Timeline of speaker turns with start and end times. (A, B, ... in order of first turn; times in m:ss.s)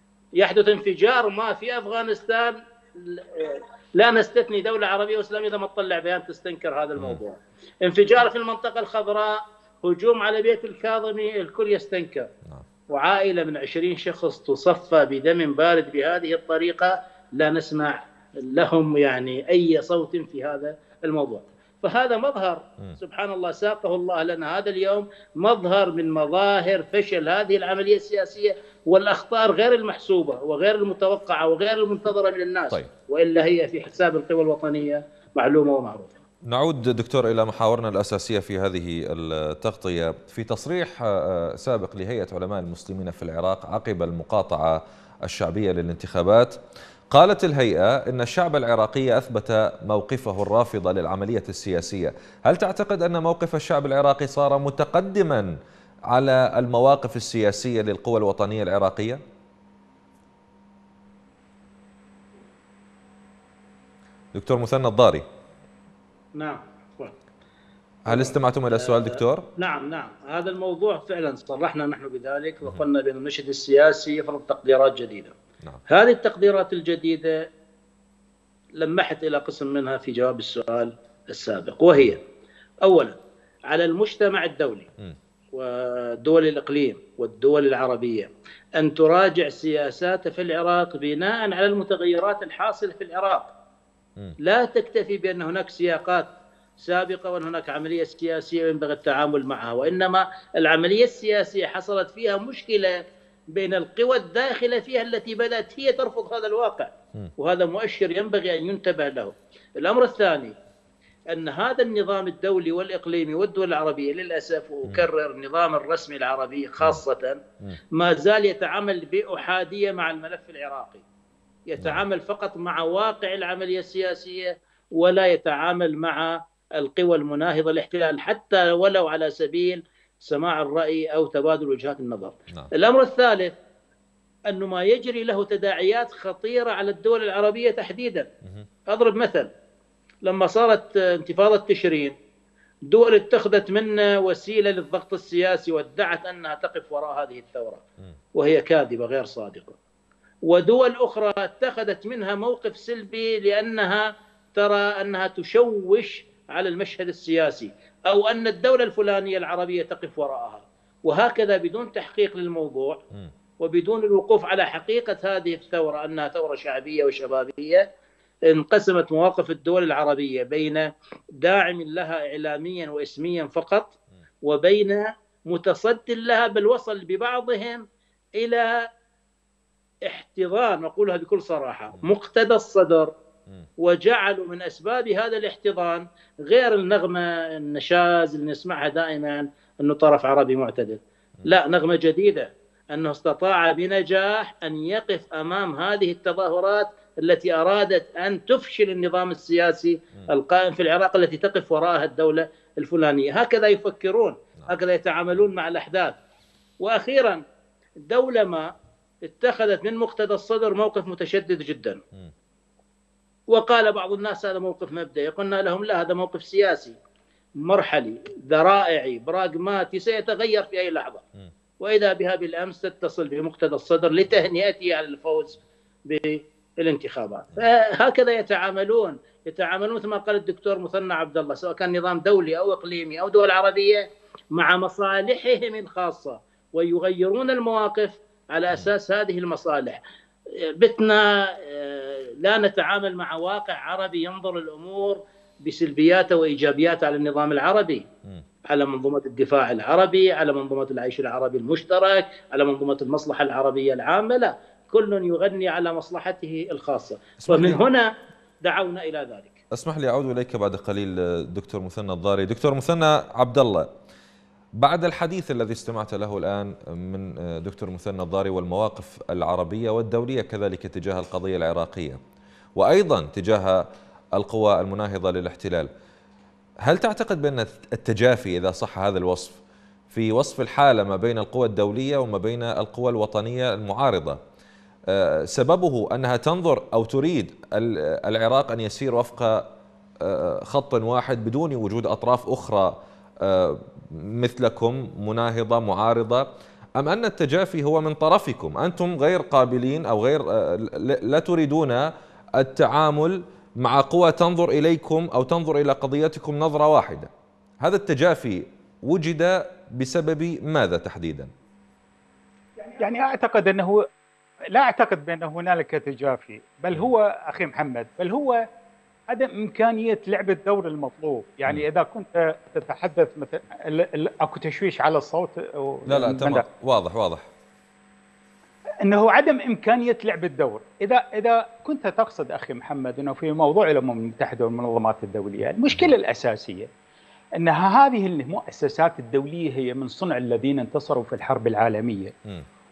0:00.4-0:12.3 A
0:12.9-0:36.1 A
0:36.5-0:46.5 B
0:47.1-0:55.5 B
0:56.1-0:59.2 B
1:04.3-1:05.2 B
1:06.4-1:07.1 A
1:08.0-1:09.5 B
1:08.1-1:15.3 A
1:15.9-1:17.4 A
1:18.8-1:22.2 A
1:22.8-1:23.2 A
1:23.7-1:24.9 A
1:25.5-1:33.5 A
1:34.4-1:36.3 A
1:36.8-1:50.5 A
1:51.3-1:57.4 A
1:57.9-2:01.0 A
2:01.7-2:13.5 A
2:01.8-2:02.0 B
2:14.5-2:18.3 A
2:18.9-2:19.5 A
2:20.2-2:22.1 A
2:22.9-2:27.8 A
2:28.3-2:29.8 A
2:30.4-2:43.0 A
2:43.6-2:47.8 A
2:48.4-2:57.8 A
2:58.4-2:58.8 A
3:00.0-3:03.1 A
3:03.8-3:26.2 A
3:26.8-3:27.4 A
3:28.0-3:28.7 A
3:29.2-3:32.0 A
3:33.5-3:37.0 A
3:37.6-3:41.2 A
3:41.8-4:00.0 A
4:00.6-4:08.0 A
4:08.7-4:18.1 A
4:17.4-4:17.8 B
4:18.6-4:19.6 A
4:19.7-4:23.9 B
4:24.8-4:32.2 B
4:32.8-4:35.9 B
4:36.8-4:39.6 B
4:40.1-4:44.4 B
4:45.1-4:49.7 B
4:50.2-5:07.3 B
5:07.8-5:11.5 B
5:12.8-5:14.0 C
5:14.7-5:18.6 C
5:19.3-5:26.6 C
5:26.1-5:27.5 B
5:29.0-5:36.9 C
5:37.6-5:42.3 C